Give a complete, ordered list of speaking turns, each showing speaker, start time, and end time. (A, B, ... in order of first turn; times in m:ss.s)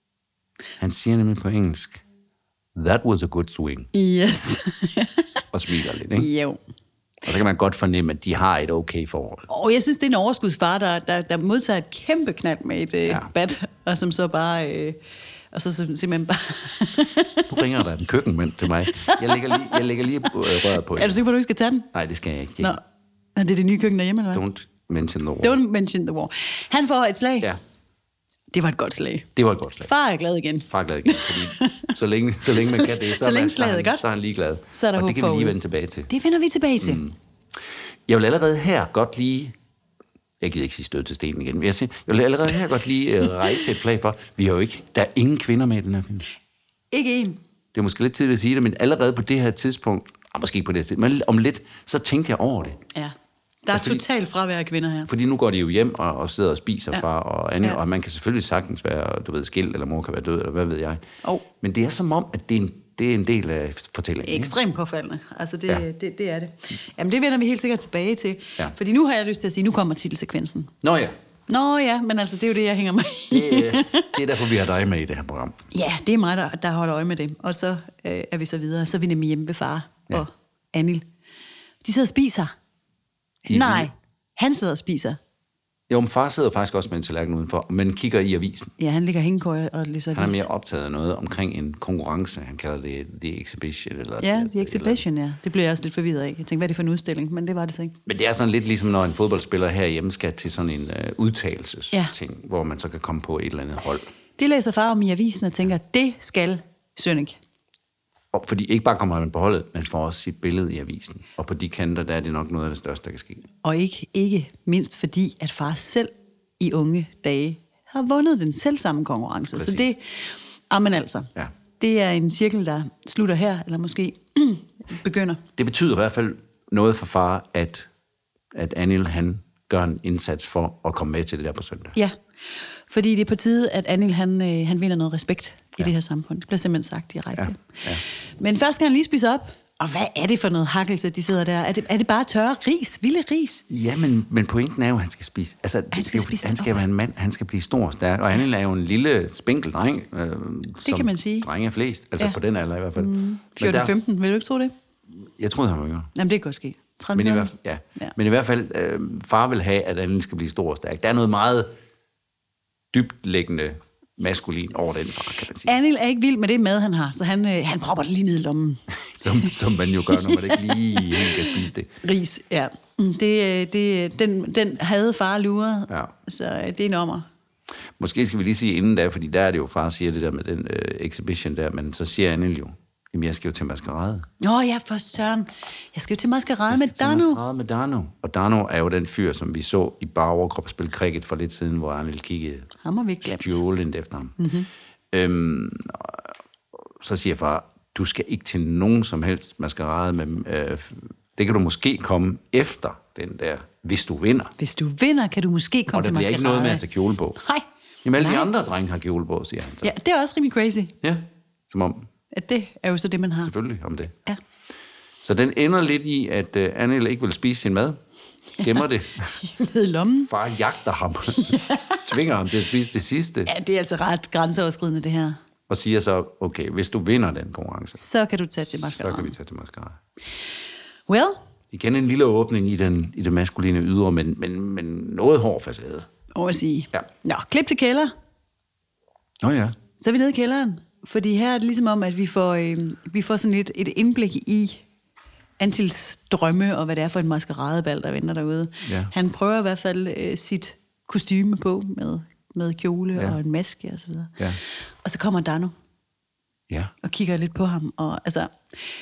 0:00.8-0:02.0 A
0:02.8-0:03.9 A
0:03.9-0:05.4 B
0:05.5-0:06.3 A
0:06.1-0:06.6 B
0:07.2-0:09.4 A
0:09.5-0:15.0 B
0:15.5-0:17.6 B
0:17.5-0:21.2 A
0:18.8-0:19.8 B
0:20.4-0:21.9 B
0:21.9-0:22.8 A
0:23.4-0:24.4 B
0:24.3-0:25.6 A
0:25.4-0:27.5 B
0:28.5-0:29.3 B
0:29.4-0:29.9 A
0:29.8-0:31.9 B
0:30.7-0:36.1 A
0:32.5-0:34.0 B
0:34.7-0:35.6 B
0:36.1-0:37.1 B
0:36.8-0:37.1 A
0:38.1-0:39.5 A
0:40.4-0:46.2 A
0:46.9-0:47.4 B
0:47.7-0:52.8 A
0:53.6-0:55.1 B
0:53.7-0:54.0 A
0:55.1-1:01.0 A
1:01.5-1:04.5 A
1:04.2-1:10.7 B
1:10.8-1:11.1 A
1:11.5-1:14.2 B
1:13.3-1:15.6 A
1:15.7-1:21.0 B
1:21.8-1:22.5 B
1:23.5-1:23.9 A
1:23.5-1:25.2 B
1:25.9-1:28.7 A
1:28.8-1:30.4 B
1:30.1-1:35.0 A
1:34.2-1:38.0 B
1:38.0-1:44.1 A
1:44.4-1:47.4 B
1:48.3-1:53.5 A
1:53.6-2:05.4 B
1:59.5-1:59.9 A
2:05.6-2:07.9 A
2:08.5-2:12.0 A
2:12.9-2:17.8 B
2:17.3-2:18.0 A
2:18.4-2:23.6 B
2:23.7-2:33.9 A
2:25.9-2:26.8 B
2:30.8-2:31.5 B
2:33.0-2:34.7 B
2:35.2-2:36.1 A
2:36.1-2:38.1 B
2:37.1-2:41.7 A
2:42.9-2:45.8 A
2:45.6-2:49.5 B
2:49.1-2:51.9 A
2:50.1-2:57.2 B
2:58.0-3:04.3 A
3:04.4-3:07.4 B
3:06.7-3:12.7 A
3:12.8-3:13.6 B
3:13.2-3:14.4 A
3:14.4-3:14.7 B
3:15.1-3:24.5 A
3:24.6-3:26.8 B
3:25.9-3:27.4 A
3:27.4-3:27.6 B
3:28.0-3:29.9 A
3:28.2-3:28.5 B
3:29.8-3:31.0 B
3:31.0-3:32.1 A
3:32.3-3:33.5 B
3:33.4-3:34.1 A
3:35.2-3:38.0 A
3:38.6-3:39.4 A
3:39.4-3:40.3 B
3:40.2-3:43.5 A
3:41.4-3:42.1 B
3:43.4-3:45.4 B
3:45.7-3:48.0 A
3:47.9-3:49.3 B
3:48.8-3:50.0 A
3:51.1-3:51.4 B
3:51.7-3:56.1 A
3:56.3-3:58.1 B
3:59.4-3:59.8 A
4:00.0-4:04.8 B
4:05.6-4:14.4 B
4:08.8-4:09.1 A
4:15.0-4:15.7 B
4:16.7-4:16.9 A
4:17.0-4:18.5 B